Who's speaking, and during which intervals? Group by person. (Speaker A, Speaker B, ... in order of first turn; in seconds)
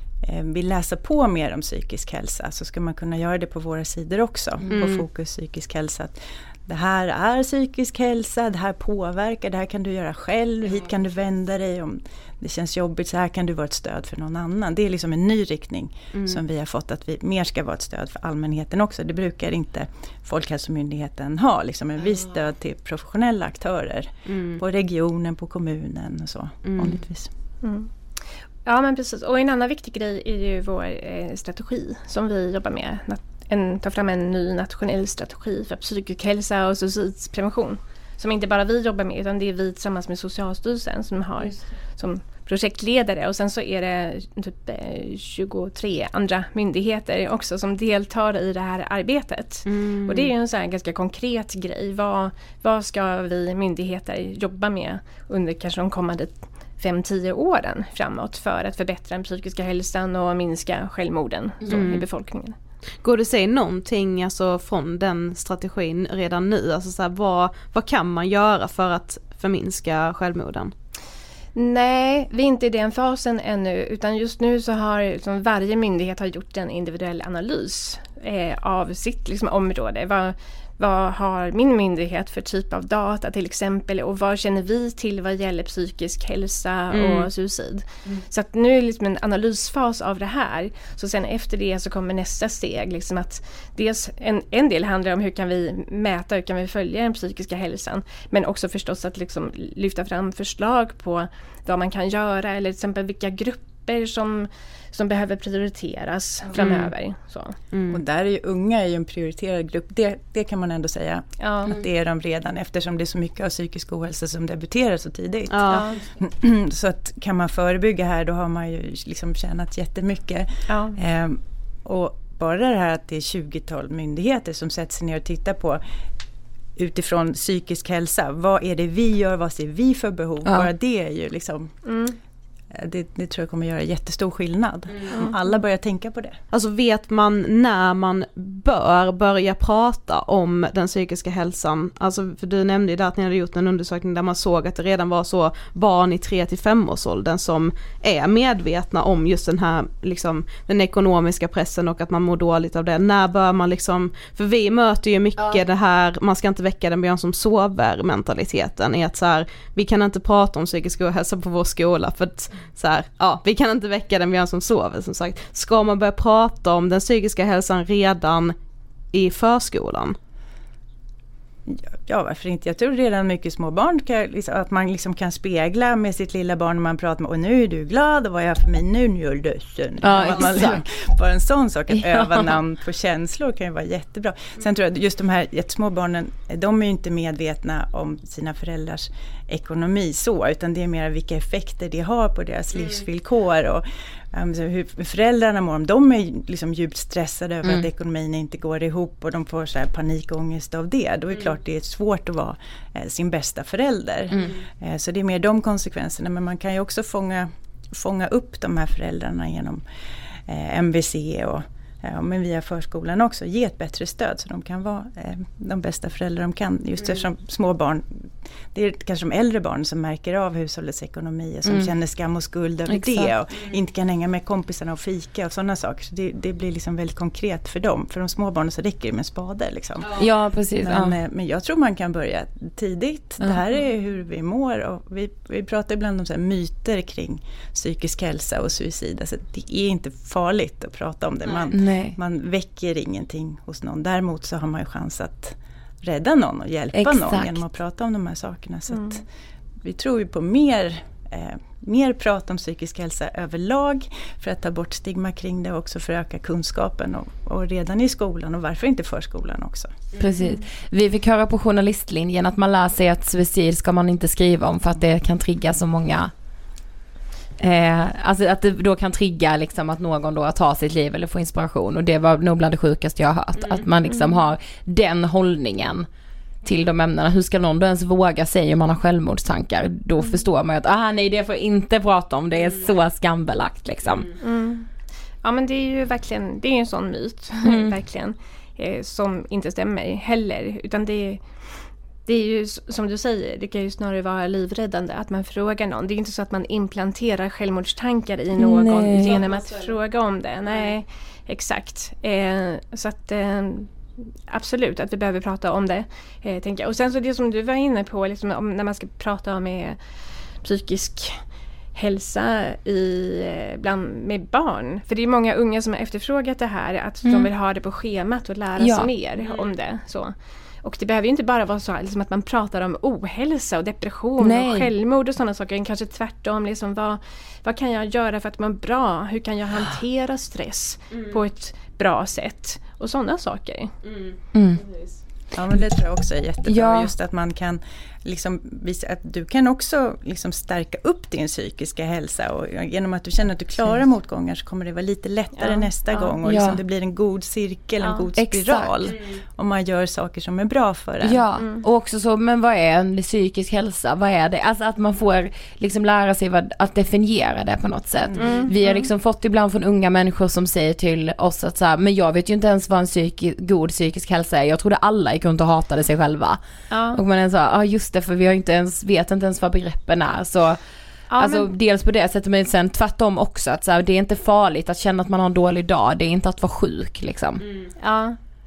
Speaker A: 0.2-27.3, 107.9-125.8, 126.8-131.8, 132.7-136.4, 171.7-209.8, 210.4-230.3, 230.8-249.2, 249.8-259.9, 335.5-351.4, 358.4-358.6
Speaker B: 4.6-4.9, 180.0-180.8, 181.9-182.5, 221.7-221.9, 222.9-223.3, 230.2-231.2, 241.7-242.2, 246.9-247.6, 260.2-266.3, 267.6-276.1, 276.6-284.3, 287.6-287.9, 298.6-299.3, 317.2-317.5, 318.8-319.1, 324.4-324.9, 334.5-334.8, 336.7-337.1, 346.4-346.8, 348.4-349.1, 351.2-366.6, 367.1-370.8, 371.4-377.6
Speaker C: 4.7-5.0, 16.1-16.4, 24.3-24.6, 26.6-27.0, 49.7-50.3, 61.7-62.1, 63.0-70.7, 86.9-87.3, 106.6-106.9, 107.7-108.0, 115.5-115.8, 134.9-135.2, 136.5-168.6, 169.1-170.2, 192.7-193.0, 230.0-230.3, 273.6-273.9, 282.6-282.9, 284.1-284.4, 299.2-300.0, 300.6-300.9, 319.4-319.7, 331.1-331.4, 334.0-335.2, 349.1-349.4, 377.6-377.9
Speaker D: 27.6-27.9, 28.6-62.5, 71.5-107.5, 111.4-111.7, 115.7-116.0, 120.7-121.0, 131.9-132.2, 248.9-249.2, 274.1-274.4, 284.4-284.9, 285.4-291.6, 292.3-304.0, 304.5-310.0, 310.6-311.4, 311.9-333.9, 345.6-346.4, 348.0-348.3, 351.6-351.8, 358.4-359.1, 366.9-367.2, 371.3-371.7, 378.0-378.4